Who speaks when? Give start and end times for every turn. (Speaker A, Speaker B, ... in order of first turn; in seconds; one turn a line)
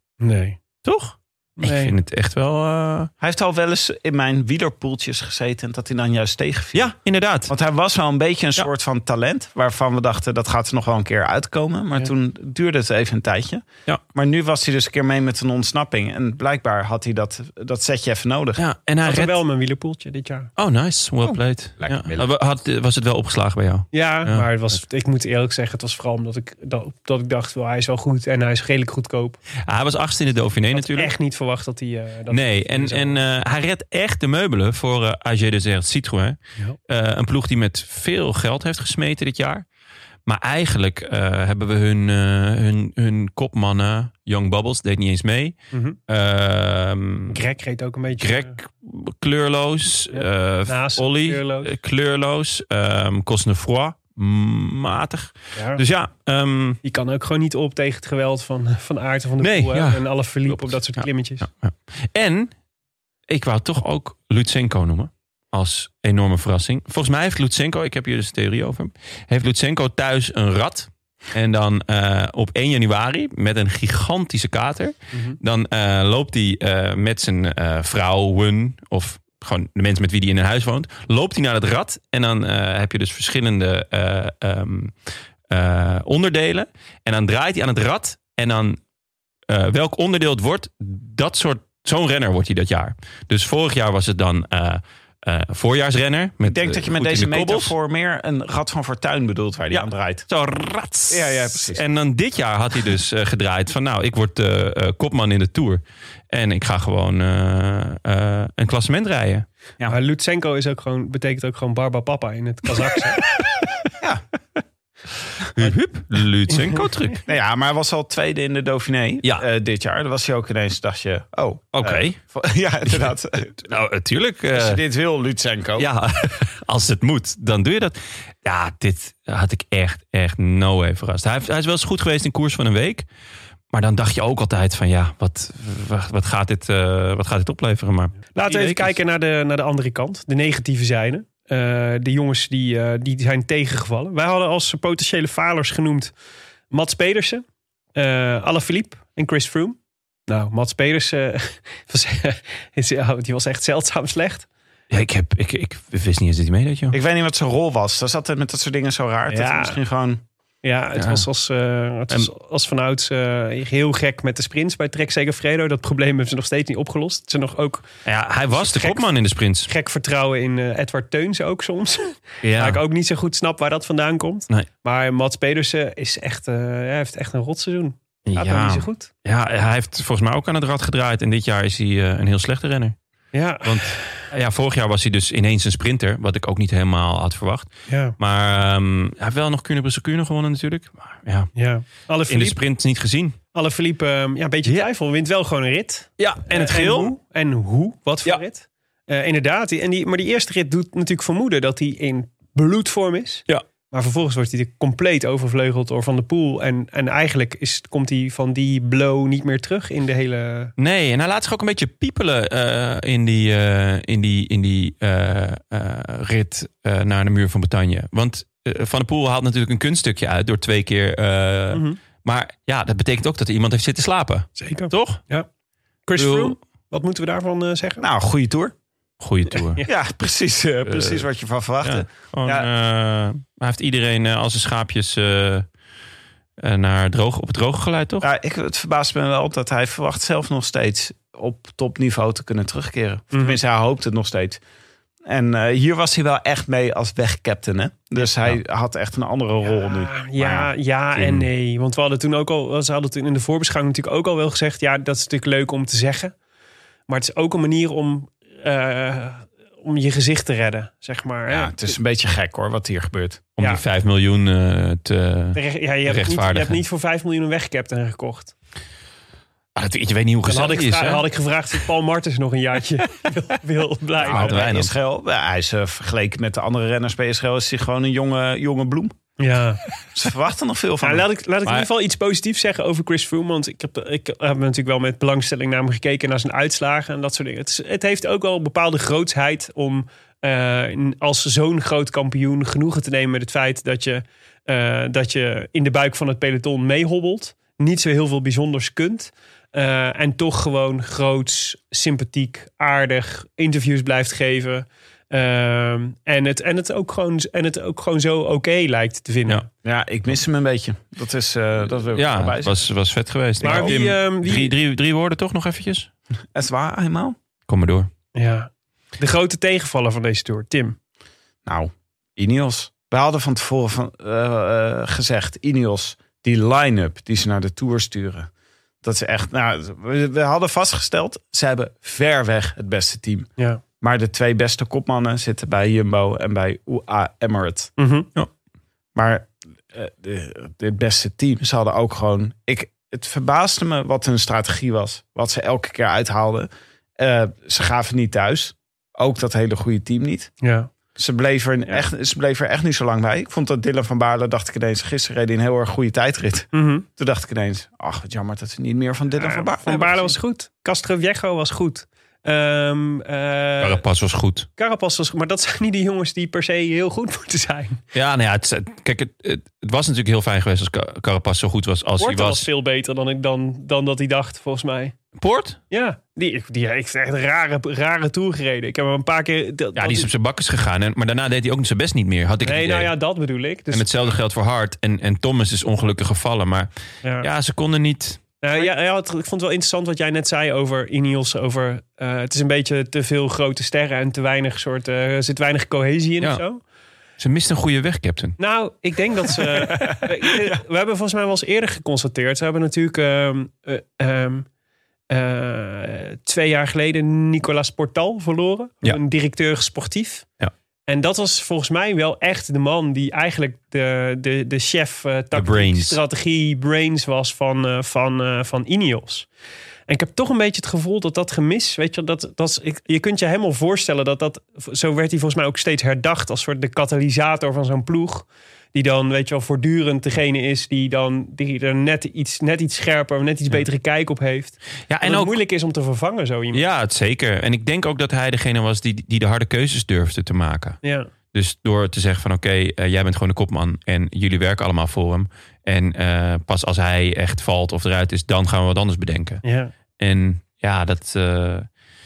Speaker A: 0.2-0.6
Speaker B: 0.8-3.1
Speaker A: 1.6-1.9
Speaker C: 3.2-6.9
Speaker B: 6.7-7.5
Speaker C: 7.5-18.6
Speaker B: 18.6-19.4
Speaker A: 19.0-20.5
Speaker B: 20.6-24.8
Speaker C: 21.2-22.3
Speaker A: 23.9-29.4
Speaker B: 29.6-31.1
Speaker A: 30.7-33.2
Speaker B: 32.3-39.6
Speaker B: 40.3-47.4
Speaker A: 45.7-46.0
Speaker A: 47.3-48.5
Speaker B: 48.2-56.8
Speaker A: 50.1-51.7
Speaker A: 55.5-55.8
Speaker A: 56.8-61.5
Speaker B: 59.4-62.5
Speaker B: 63.3-88.8
Speaker A: 75.1-75.4
Speaker B: 89.5-97.7
Speaker C: 96.4-100.3
Speaker B: 99.7-109.5
Speaker C: 101.1-101.8
Speaker A: 109.8-113.2
Speaker B: 115.5-117.2
Speaker A: 116.5-116.8
Speaker C: 117.2-123.6
Speaker B: 121.7-122.2
Speaker B: 122.9-124.8
Speaker C: 124.5-125.9
Speaker B: 125.8-133.1
Speaker B: 133.7-139.0
Speaker A: 138.3-146.1
Speaker A: 146.7-147.4
Speaker A: 147.9-149.8
Speaker A: 150.3-154.5
Speaker B: 154.9-156.9
Speaker C: 156.9-160.2
Speaker A: 159.3-159.8
Speaker A: 160.6-167.9
Speaker B: 160.9-161.2
Speaker B: 168.0-169.7
Speaker A: 168.5-169.1
Speaker A: 169.7-179.1
Speaker B: 172.4-172.8
Speaker B: 178.2-182.9
Speaker A: 183.3-184.0
Speaker B: 183.6-191.5
Speaker A: 187.9-188.2
Speaker A: 191.6-192.6
Speaker B: 192.3-193.3
Speaker A: 193.5-210.7
Speaker B: 196.2-197.1
Speaker B: 210.8-225.2
Speaker A: 221.7-222.0
Speaker A: 224.6-225.5
Speaker A: 226.1-228.1
Speaker B: 226.2-226.5
Speaker C: 228.0-228.7
Speaker B: 229.2-229.8
Speaker C: 229.8-232.7
Speaker B: 230.8-231.2
Speaker B: 231.8-235.7
Speaker B: 236.6-238.3
Speaker C: 238.2-244.6
Speaker A: 243.3-243.6
Speaker C: 245.2-250.7
Speaker A: 249.7-256.3
Speaker B: 251.2-251.5
Speaker A: 257.1-261.9
Speaker C: 261.5-263.4
Speaker B: 263.6-266.8
Speaker A: 265.5-268.5
Speaker B: 269.8-271.3
Speaker A: 270.5-274.5
Speaker B: 274.2-274.9
Speaker C: 274.2-279.1
Speaker A: 279.4-279.8
Speaker C: 280.1-281.3
Speaker A: 281.0-309.6
Speaker C: 309.8-312.8
Speaker B: 312.1-316.1
Speaker C: 313.6-313.9
Speaker A: 313.6-314.7
Speaker C: 316.5-317.4
Speaker B: 317.7-318.1
Speaker A: 318.4-320.9
Speaker C: 321.6-328.5
Speaker C: 329.0-333.5
Speaker C: 334.0-337.9
Speaker A: 338.0-338.3
Speaker C: 339.1-350.5
Speaker A: 350.6-350.9
Speaker C: 351.1-360.4
Speaker A: 356.7-357.1
Speaker A: 359.4-364.0
Speaker B: 363.8-364.7
Speaker A: 364.8-368.0
Speaker B: 368.1-372.6
Speaker A: 372.2-375.1
Speaker B: 375.4-375.8
Speaker A: 375.9-380.3
Speaker B: 379.9-383.1
Speaker A: 382.6-384.3
Speaker B: 383.9-386.9
Speaker B: 387.4-388.9
Speaker A: 388.6-396.8
Speaker B: 397.4-398.6
Speaker A: 398.6-404.6
Speaker B: 399.6-400.2
Speaker A: 405.3-410.4
Speaker A: 411.1-419.5
Speaker B: 415.5-416.2
Speaker A: 420.1-436.8
Speaker B: 435.1-435.6
Speaker B: 436.7-441.0
Speaker A: 441.0-441.3
Speaker B: 441.5-449.6
Speaker A: 449.6-449.9
Speaker B: 450.2-451.9